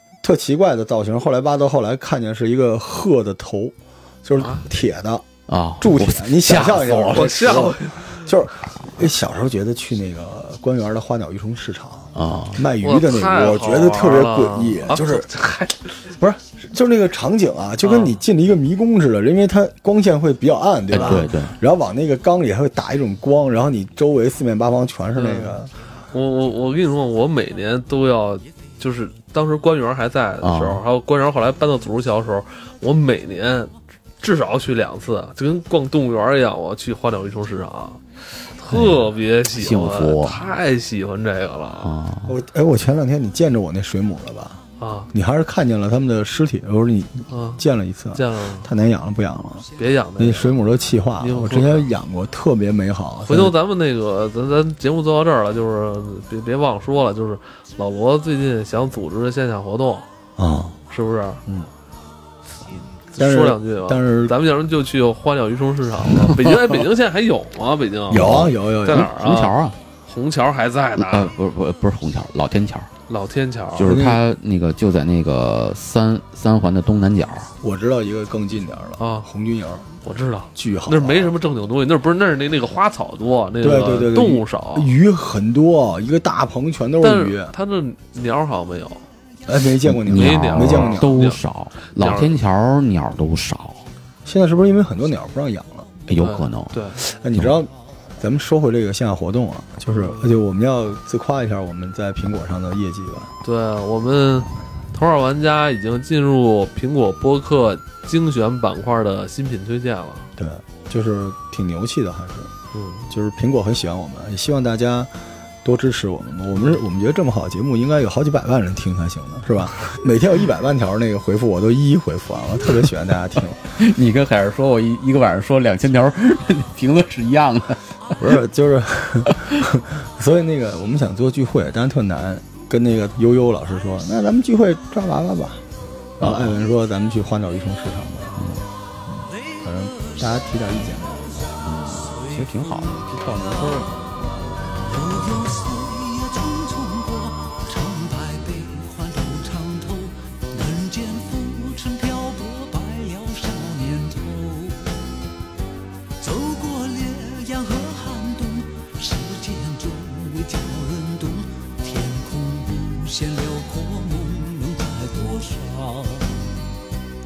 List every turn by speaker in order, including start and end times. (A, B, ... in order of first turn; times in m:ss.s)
0:00.2-0:05.3 A
0:04.4-0:04.6 B
0:05.5-0:07.7 C
0:05.8-0:15.3 A
0:07.1-0:08.3 B
0:12.2-0:12.6 C
0:12.8-0:16.1 B
0:16.2-0:25.7 A
0:17.8-0:18.2 B
0:20.9-0:21.2 B
0:20.9-0:21.6 C
0:25.2-0:25.6 B
0:26.1-0:38.0 B
0:30.4-0:30.8 C
0:38.6-0:41.9 B
0:38.7-0:39.0 C
0:39.5-0:40.4 C
0:41.8-0:42.3 C
0:42.3-0:44.6 A
0:44.8-0:45.1 B
0:45.1-0:49.7 A
0:47.3-0:47.6 B
0:48.1-0:48.7 B
0:49.8-0:50.6 B
0:50.2-0:53.6 A
0:51.2-0:51.9 B
0:53.2-1:00.1 B
1:00.4-1:00.8 A
1:00.9-1:01.4 B
1:03.1-1:11.3 B
1:03.2-1:04.4 A
1:06.2-1:06.7 C
1:08.1-1:09.1 A
1:08.1-1:09.8 C
1:11.0-1:12.9 C
1:13.1-1:14.0 B
1:13.8-1:17.5 C
1:13.8-1:14.2 A
1:17.6-1:19.9 A
1:19.0-1:19.3 B
1:20.0-1:24.9 B
1:20.6-1:21.4 A
1:23.6-1:27.5 A
1:27.0-1:29.0 B
1:29.5-1:31.2 A
1:29.8-1:33.8 C
1:30.1-1:31.4 B
1:31.9-1:32.4 B
1:34.2-1:35.9 A
1:36.1-1:36.8 C
1:36.2-1:37.0 B
1:37.0-1:43.3 A
1:39.9-1:40.2 B
1:43.4-1:50.3 B
1:50.4-1:52.5 A
1:52.7-1:53.1 B
1:53.1-1:55.1 A
1:55.6-2:03.6 A
2:03.7-2:08.4 C
2:08.2-2:15.6 A
2:16.2-2:18.6 A
2:16.2-2:16.6 C
2:18.4-2:19.3 C
2:19.6-2:21.6 A
2:21.6-2:23.9 C
2:22.0-2:24.0 D
2:24.7-2:35.1 D
2:36.2-2:46.6 D